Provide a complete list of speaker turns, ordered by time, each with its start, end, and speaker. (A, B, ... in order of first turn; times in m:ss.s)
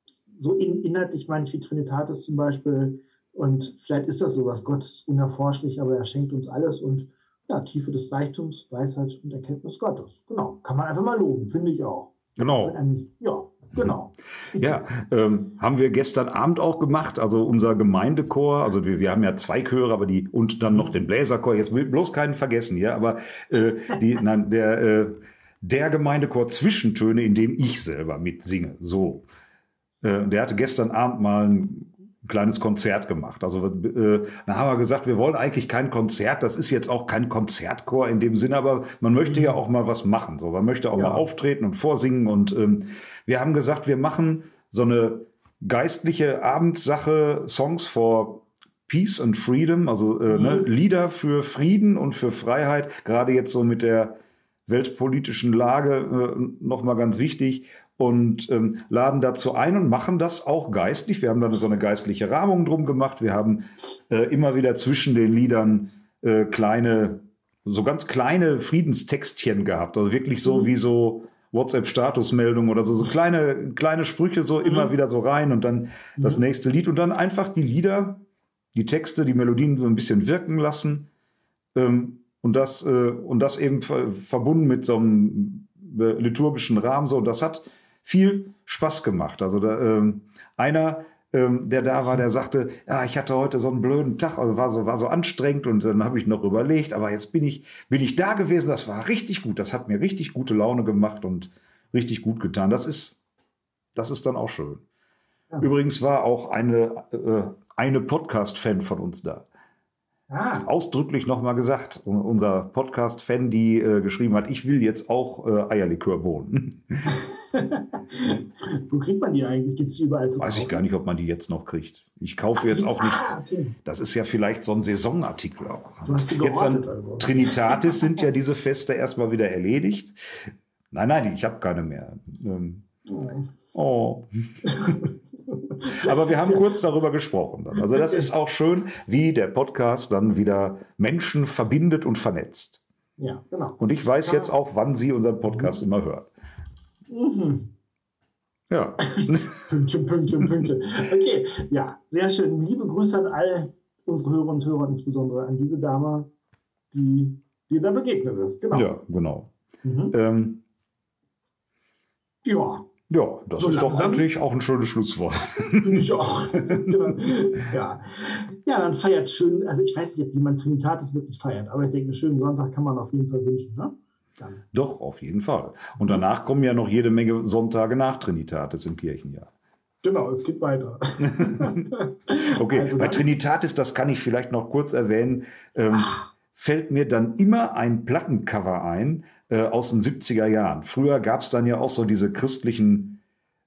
0:00.3-0:14.6 A
0:12.4-0:12.8 B
0:14.6-0:29.2 B
0:30.0-1:18.2 B
0:39.2-0:39.6 A
0:40.9-0:41.2 A
0:50.3-0:50.7 A
1:14.6-1:14.9 A
1:16.2-1:16.4 A
1:18.7-1:21.1 B
1:21.7-1:43.2 B
1:43.9-1:44.8 B
1:45.6-1:49.5 B
1:50.3-1:50.7 A
1:50.5-1:57.2 B
1:57.0-2:00.8 A
2:00.4-2:03.3 B
2:02.6-2:03.7 A
2:03.8-2:12.8 B
2:06.0-2:08.0 A
2:13.1-2:13.5 A
2:13.7-2:14.3 B
2:14.6-2:16.7 A
2:16.0-2:22.8 B
2:17.9-2:18.2 A
2:23.2-2:24.5 A
2:23.8-2:26.3 B
2:25.5-2:25.7 A
2:27.1-2:27.7 A
2:28.7-2:29.6 B
2:29.0-2:36.3 A
2:36.9-2:38.9 A
2:38.7-2:39.5 B
2:39.8-2:40.1 A
2:40.1-2:40.6 B
2:42.4-2:42.8 A
2:43.1-2:46.1 B
2:43.6-2:44.2 A
2:45.8-2:54.6 A
2:46.7-2:47.3 B
2:54.7-2:59.5 B
3:00.0-3:03.3 A
3:01.2-3:01.9 B
3:02.5-3:13.2 B
3:05.9-3:06.2 A